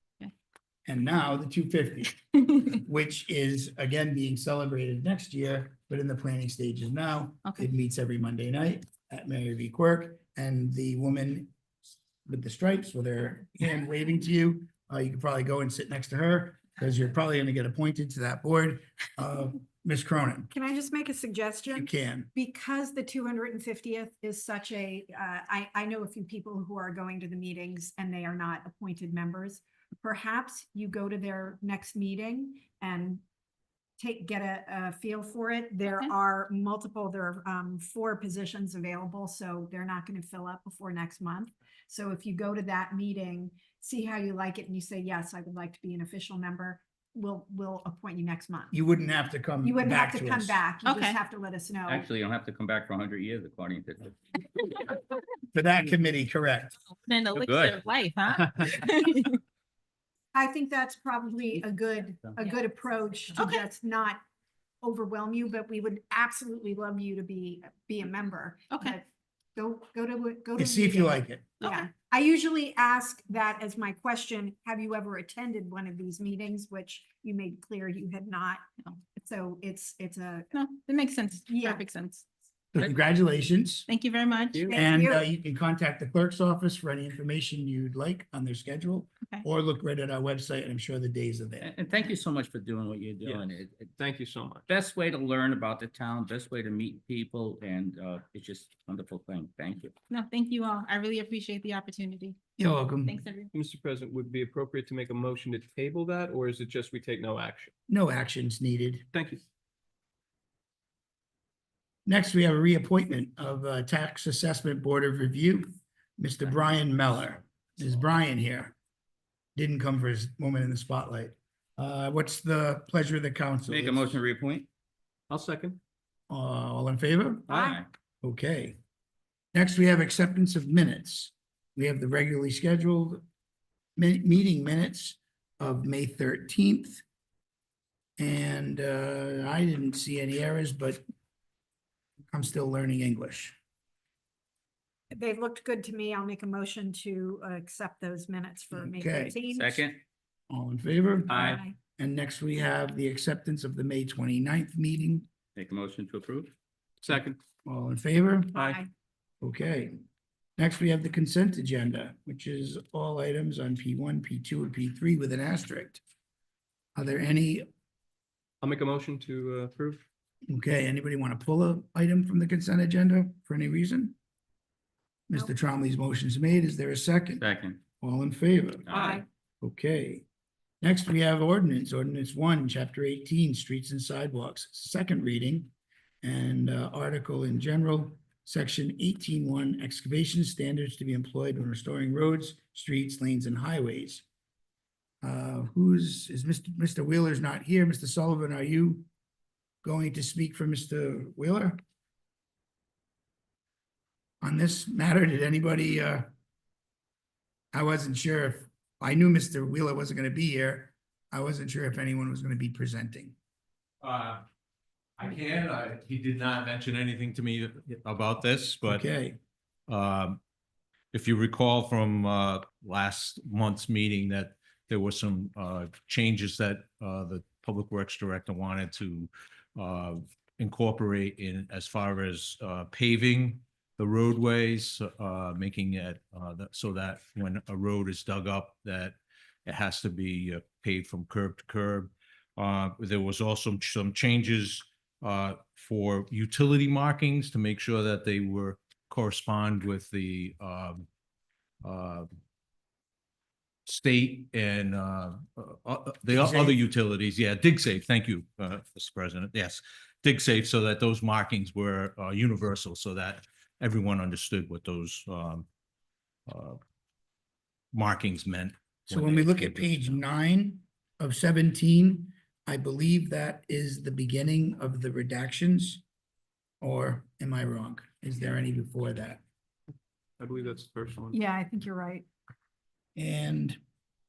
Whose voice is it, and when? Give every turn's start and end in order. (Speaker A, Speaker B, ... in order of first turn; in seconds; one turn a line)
Speaker A: 0.9-11.5
Speaker A: 12.2-20.5
Speaker B: 20.5-33.2
Speaker A: 21.8-22.3
Speaker B: 34.0-48.7
Speaker A: 48.7-50.6
Speaker B: 49.6-52.0
Speaker C: 50.8-51.2
Speaker D: 51.9-54.2
Speaker A: 55.5-56.7
Speaker C: 56.9-59.4
Speaker D: 57.3-57.8
Speaker B: 60.3-64.2
Speaker C: 63.3-63.6
Speaker B: 64.8-69.0
Speaker C: 68.7-69.0
Speaker B: 69.5-78.6
Speaker A: 70.6-71.6
Speaker C: 71.6-71.9
Speaker B: 79.2-80.5
Speaker C: 80.5-82.2
Speaker B: 81.5-81.8
Speaker A: 82.7-83.9
Speaker C: 83.9-84.7
Speaker B: 84.6-85.2
Speaker A: 84.7-91.7
Speaker D: 91.6-94.0
Speaker E: 93.2-94.6
Speaker D: 94.7-99.9
Speaker C: 100.1-102.4
Speaker A: 102.6-103.2
Speaker C: 103.0-103.5
Speaker E: 103.5-107.7
Speaker A: 107.9-109.0
Speaker E: 109.1-109.4
Speaker A: 112.0-118.7
Speaker A: 119.5-124.2
Speaker D: 123.7-124.7
Speaker E: 125.3-125.8
Speaker A: 126.3-127.7
Speaker D: 127.6-127.9
Speaker A: 128.2-128.8
Speaker A: 129.5-133.2
Speaker A: 134.0-137.0
Speaker A: 138.2-141.0
Speaker A: 142.3-143.6
Speaker B: 145.1-149.8
Speaker A: 148.7-149.4
Speaker D: 149.5-150.0
Speaker A: 150.5-155.3
Speaker E: 151.3-151.6
Speaker B: 151.3-151.7
Speaker D: 155.5-156.5
Speaker E: 157.0-157.4
Speaker A: 157.6-158.6
Speaker B: 158.5-158.9
Speaker A: 159.4-160.0
Speaker A: 160.6-166.0
Speaker A: 166.9-167.7
Speaker E: 168.6-170.0
Speaker A: 170.5-174.2
Speaker A: 175.3-177.4
Speaker D: 177.4-177.8
Speaker A: 178.0-180.2
Speaker B: 178.9-179.2
Speaker E: 178.9-179.2
Speaker A: 180.8-194.2
Speaker A: 195.2-199.1
Speaker A: 199.8-201.8
Speaker A: 204.4-206.3
Speaker A: 207.7-213.3
Speaker F: 214.0-214.4
Speaker F: 215.2-219.0
Speaker A: 218.8-219.4
Speaker F: 219.9-220.4
Speaker F: 221.1-251.1
Speaker F: 251.8-252.3
Speaker F: 253.8-265.6
Speaker A: 256.3-256.8
Speaker F: 266.5-266.8
Speaker F: 267.9-270.2
Speaker A: 269.1-276.0
Speaker A: 276.8-279.4
Speaker E: 280.4-281.4
Speaker B: 281.3-282.2
Speaker A: 283.1-283.8